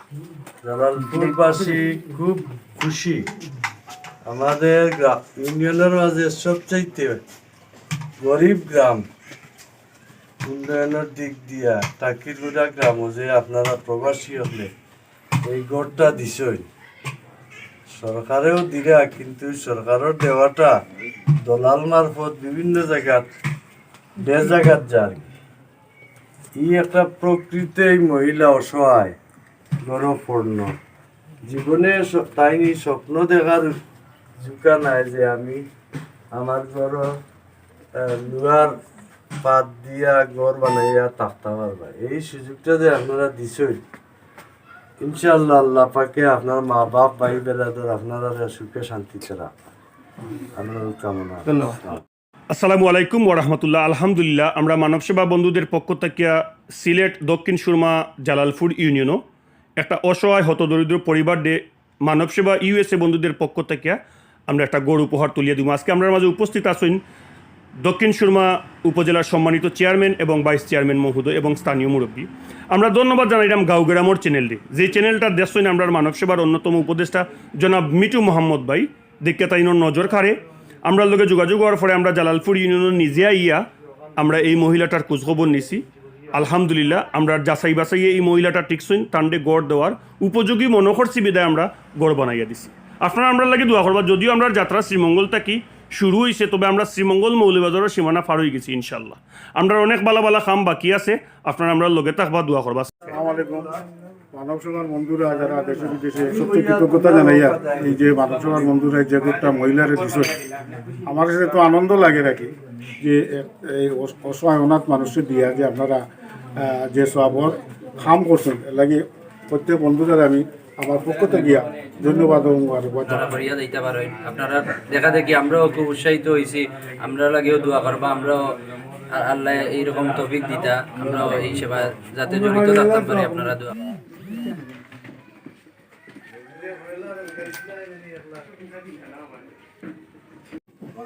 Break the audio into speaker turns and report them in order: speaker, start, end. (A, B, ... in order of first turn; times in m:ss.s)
0:00.6-0:03.2 A
0:04.2-0:07.2 A
0:08.2-0:09.0 A
0:10.4-0:14.7 A
0:15.4-0:16.7 A
0:17.9-0:20.7 A
0:21.4-0:23.3 A
0:24.2-0:25.2 A
0:26.6-0:29.2 A
0:29.8-0:30.8 A
0:31.4-0:33.8 A
0:34.4-0:35.6 A
0:36.3-0:37.2 A
0:37.9-0:38.7 A
0:39.4-0:43.8 A
0:45.0-0:49.5 A
0:50.4-0:52.0 A
0:52.5-0:59.2 B
0:59.8-1:07.0 B
1:07.8-1:23.6 B
1:24.2-1:43.1 B
1:43.1-1:43.7 C
1:44.3-1:50.4 C
1:45.5-1:48.7 A
1:51.0-1:56.0 C
1:56.6-2:03.3 C
2:03.1-2:08.5 D
2:09.1-2:13.7 D
2:12.7-2:13.2 C
2:16.3-2:18.7 A